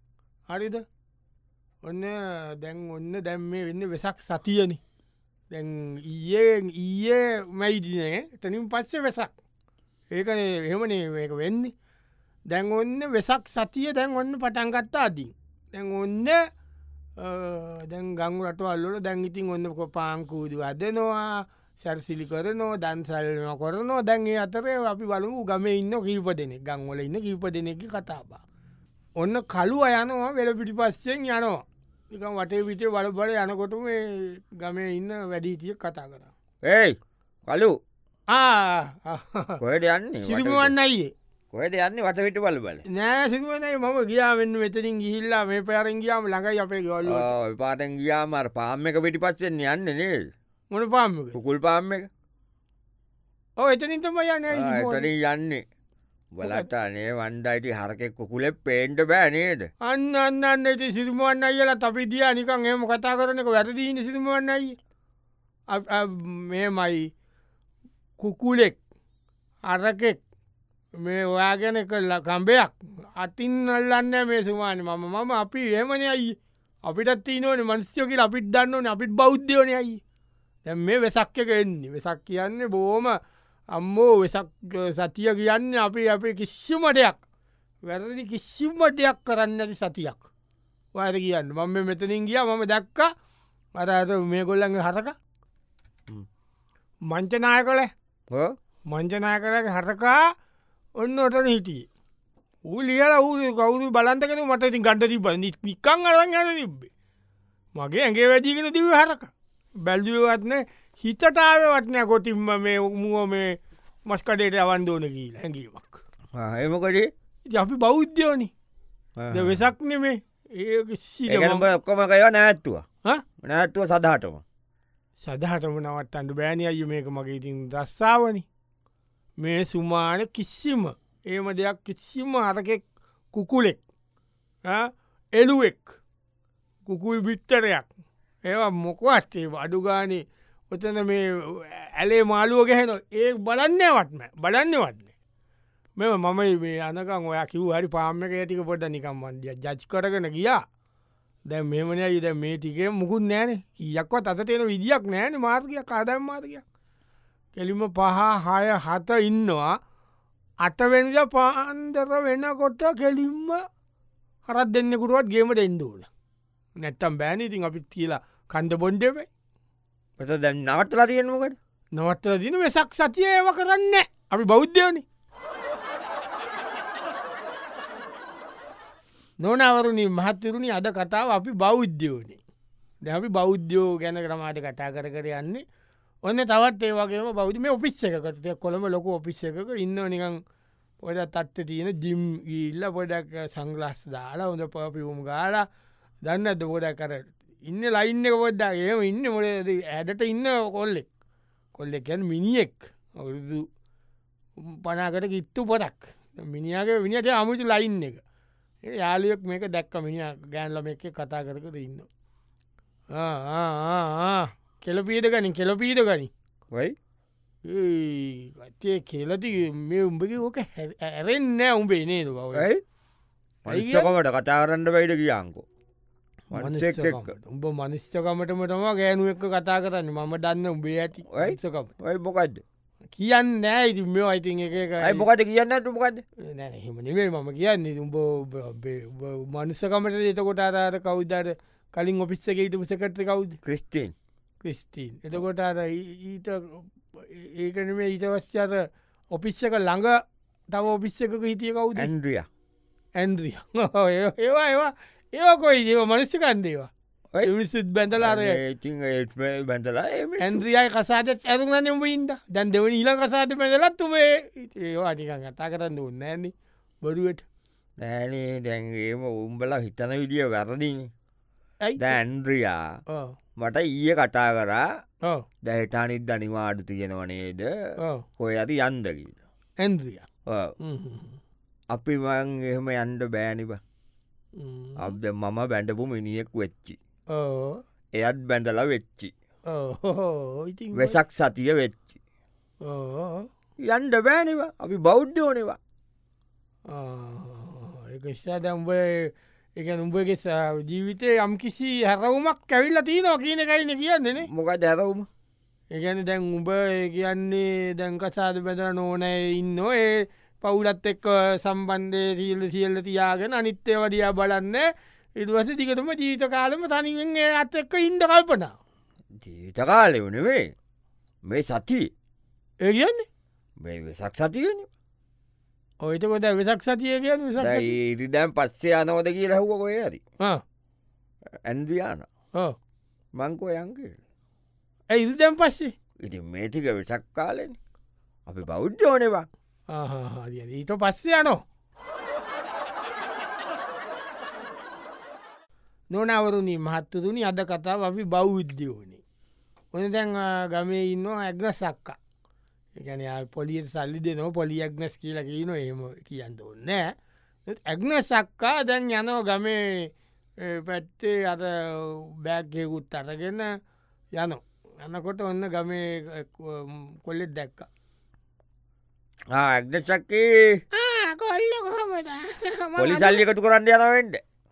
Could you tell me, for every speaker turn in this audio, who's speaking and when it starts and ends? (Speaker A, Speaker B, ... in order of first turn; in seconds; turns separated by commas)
Speaker A: 0.5-0.8, Speaker A: 1.8-4.8, Speaker A: 5.5-9.3, Speaker A: 10.1-11.7, Speaker A: 12.5-16.4, Speaker A: 17.2-28.4, Speaker A: 29.2-36.3, Speaker B: 36.6-37.8, Speaker A: 38.3-39.6, Speaker B: 39.6-40.7, Speaker A: 40.2-41.1, Speaker B: 41.5-42.9, Speaker A: 42.9-47.3, Speaker B: 47.1-50.3, Speaker A: 50.7-51.4, Speaker B: 51.3-52.1, Speaker A: 53.6-55.1, Speaker B: 54.5-55.6, Speaker B: 56.3-59.7, Speaker A: 59.8-64.8, Speaker A: 65.7-67.1, Speaker A: 68.2-68.8, Speaker A: 69.7-70.2, Speaker A: 71.0-80.0, Speaker A: 80.7-83.2, Speaker A: 83.7-87.2, Speaker A: 87.9-90.2, Speaker A: 91.0-93.1, Speaker A: 93.8-95.2, Speaker A: 97.1-97.9, Speaker B: 98.3-98.6, Speaker A: 98.9-100.3, Speaker A: 101.0-101.9, Speaker A: 102.7-106.9, Speaker A: 107.8-113.6, Speaker A: 114.1-116.0, Speaker B: 116.3-117.1, Speaker A: 117.5-118.5, Speaker B: 119.2-119.7, Speaker A: 119.3-121.7, Speaker B: 121.3-122.8, Speaker B: 123.4-124.4, Speaker A: 125.2-128.5, Speaker A: 129.4-133.8, Speaker A: 134.7-135.9, Speaker A: 136.9-137.9, Speaker A: 138.5-145.1, Speaker A: 146.0-150.6, Speaker A: 151.5-156.6, Speaker A: 157.6-159.8, Speaker A: 160.6-163.6, Speaker A: 164.5-166.1, Speaker A: 166.8-169.3, Speaker B: 170.2-171.6, Speaker A: 171.9-175.0, Speaker A: 179.4-182.4, Speaker A: 183.0-185.6, Speaker A: 186.2-190.4, Speaker A: 191.0-195.7, Speaker A: 196.2-201.1, Speaker A: 201.8-203.7, Speaker A: 204.6-208.2, Speaker A: 208.8-212.1, Speaker A: 213.1-216.3, Speaker A: 217.7-222.7, Speaker B: 222.6-222.8, Speaker B: 223.7-225.7, Speaker A: 223.7-224.1, Speaker B: 226.5-227.3, Speaker A: 226.5-231.9, Speaker B: 231.3-232.6, Speaker A: 233.2-235.2, Speaker B: 235.0-236.2, Speaker A: 236.4-243.6, Speaker B: 243.6-244.1, Speaker A: 244.6-252.1, Speaker B: 252.0-252.5, Speaker A: 253.2-256.9, Speaker A: 257.4-258.6, Speaker B: 258.2-260.6, Speaker A: 260.4-267.4, Speaker B: 268.0-271.1, Speaker A: 271.8-272.2, Speaker B: 272.0-272.9, Speaker A: 273.1-273.4, Speaker B: 273.6-274.9, Speaker B: 275.6-277.7, Speaker A: 278.0-278.2, Speaker B: 278.4-279.4, Speaker A: 279.8-280.3, Speaker B: 280.5-280.7, Speaker A: 280.8-281.4, Speaker B: 281.9-283.8, Speaker A: 284.6-285.1, Speaker B: 285.0-287.0, Speaker A: 287.3-287.8, Speaker B: 288.2-289.3, Speaker A: 289.7-291.2, Speaker B: 290.9-292.1, Speaker A: 292.8-293.5, Speaker B: 293.9-295.8, Speaker A: 296.9-304.5, Speaker B: 304.4-305.3, Speaker A: 305.9-318.8, Speaker B: 319.4-320.7, Speaker B: 321.4-322.1, Speaker A: 322.8-323.3, Speaker B: 323.8-324.9, Speaker A: 326.0-327.9, Speaker B: 327.6-330.2, Speaker B: 331.6-332.3, Speaker B: 333.4-334.2, Speaker A: 335.1-335.9, Speaker B: 336.2-337.8, Speaker B: 338.5-339.5, Speaker A: 339.9-341.6, Speaker A: 346.1-349.2, Speaker A: 349.9-352.2, Speaker A: 353.0-357.0, Speaker A: 357.7-360.1, Speaker A: 360.6-363.7, Speaker A: 364.4-367.9, Speaker B: 369.5-370.8, Speaker A: 370.9-373.4, Speaker B: 373.0-374.4